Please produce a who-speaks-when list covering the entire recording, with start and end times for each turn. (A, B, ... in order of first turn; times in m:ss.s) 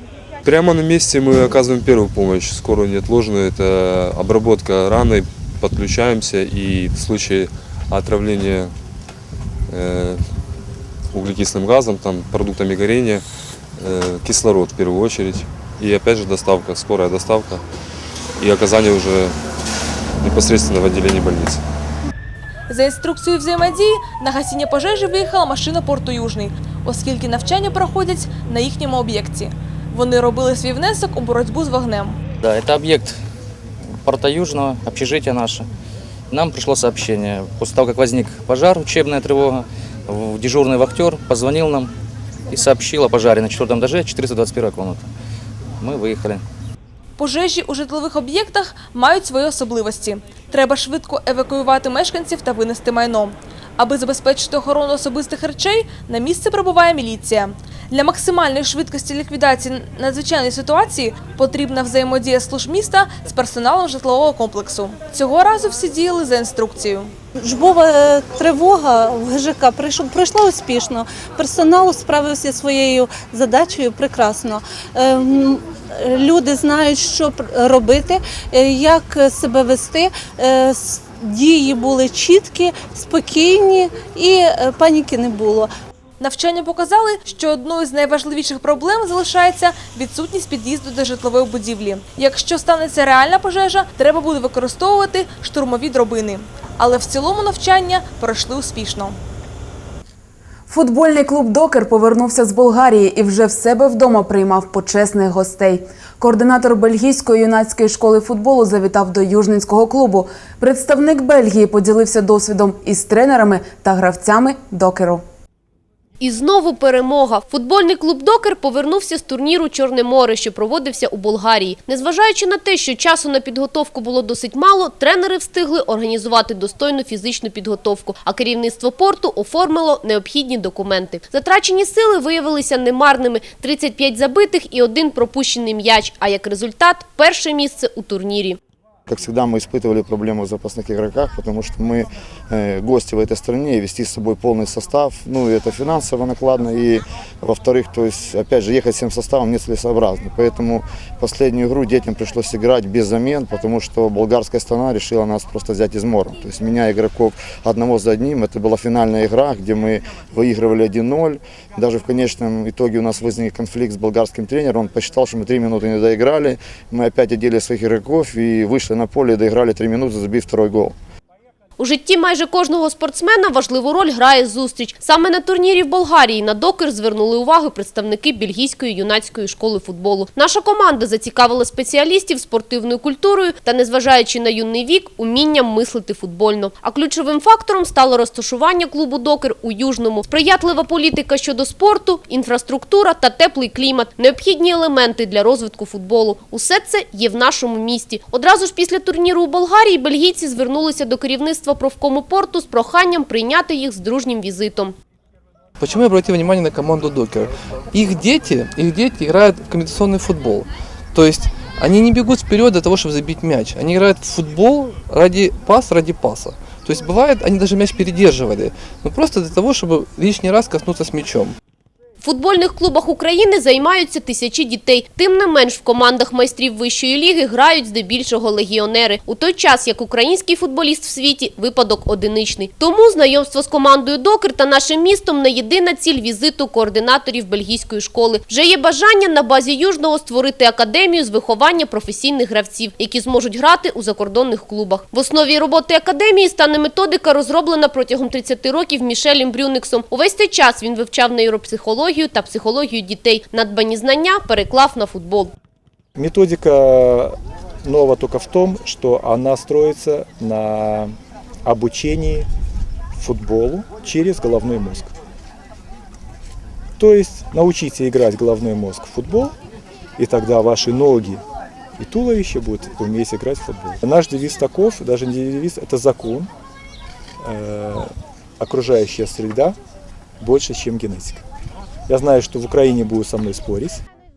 0:00.5-0:08.7 A
0:09.7-0:10.2 A
0:11.2-0:13.2 A
0:13.9-0:17.6 A
0:18.4-0:19.3 A
0:20.2-0:21.6 A
0:22.7-0:32.2 B
0:32.4-0:33.2 C
0:34.0-0:35.7 C
0:36.3-0:41.9 C
0:42.5-0:45.1 C
0:45.8-0:46.4 C
0:47.2-1:07.1 B
1:07.4-1:25.7 D
1:26.2-1:39.1 B
1:40.7-1:55.2 E
1:56.2-2:18.6 F
2:19.1-2:51.0 G
2:51.8-3:25.0 F
3:25.8-3:41.6 H
3:42.2-4:15.5 F
4:16.2-4:21.1 I
4:21.6-4:22.5 I
4:23.2-4:25.1 I
4:27.0-4:29.5 I
4:30.2-4:31.4 I
4:32.0-4:36.5 I
4:37.4-4:39.8 I
4:40.4-4:41.4 I
4:42.1-4:44.0 I